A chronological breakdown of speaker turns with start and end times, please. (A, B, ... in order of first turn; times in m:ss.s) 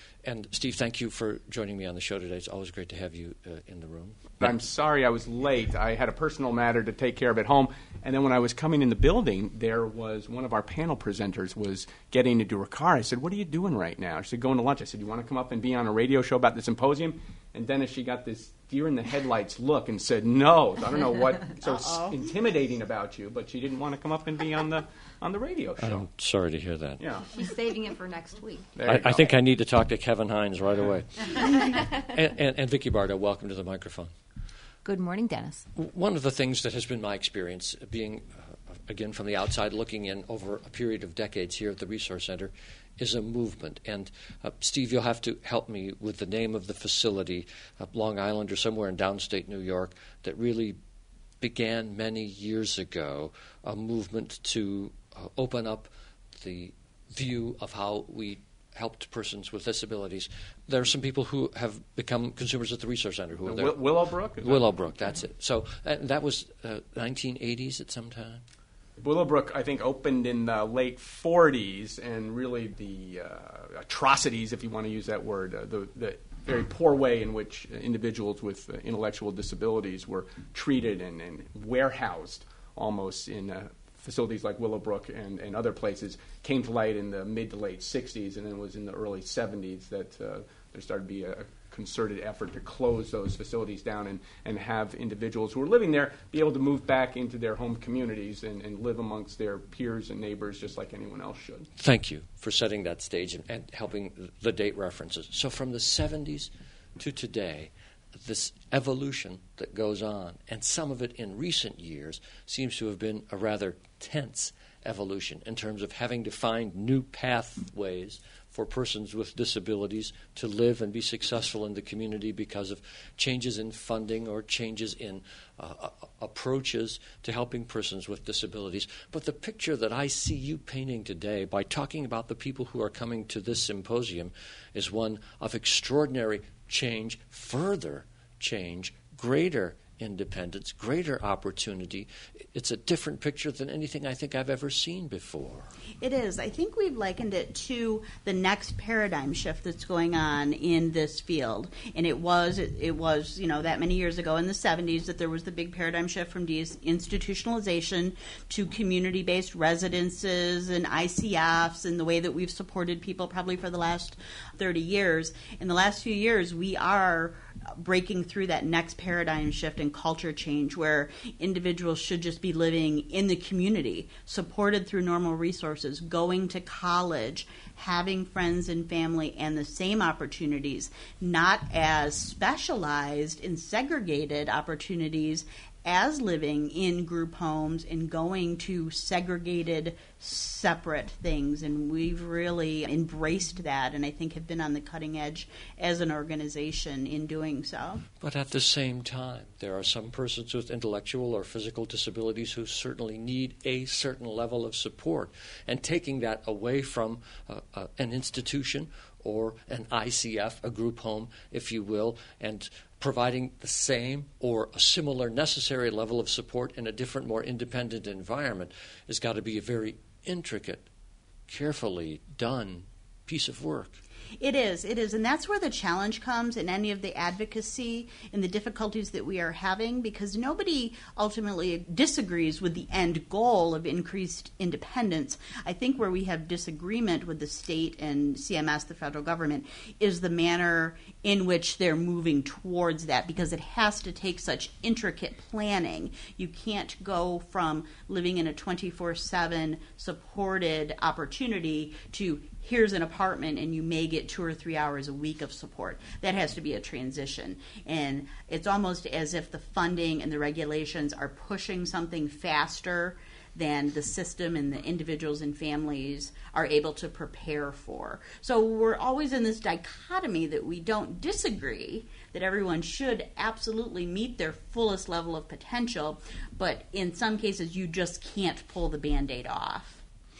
0:00.2-0:04.6 A
0:04.4-0:26.1 B
0:25.8-0:27.0 A
0:27.0-0:27.3 B
0:27.3-0:28.7 C
0:28.8-0:29.2 B
0:28.8-0:34.1 A
0:34.8-0:35.7 C
0:35.8-0:50.8 A
0:51.4-1:03.9 A
1:03.5-1:04.6 B
1:04.4-1:08.4 A
1:09.0-1:41.7 B
1:41.8-2:25.7 A
2:26.0-3:18.0 D
3:18.2-3:40.9 A
3:41.5-3:44.0 A
3:44.4-4:40.0 D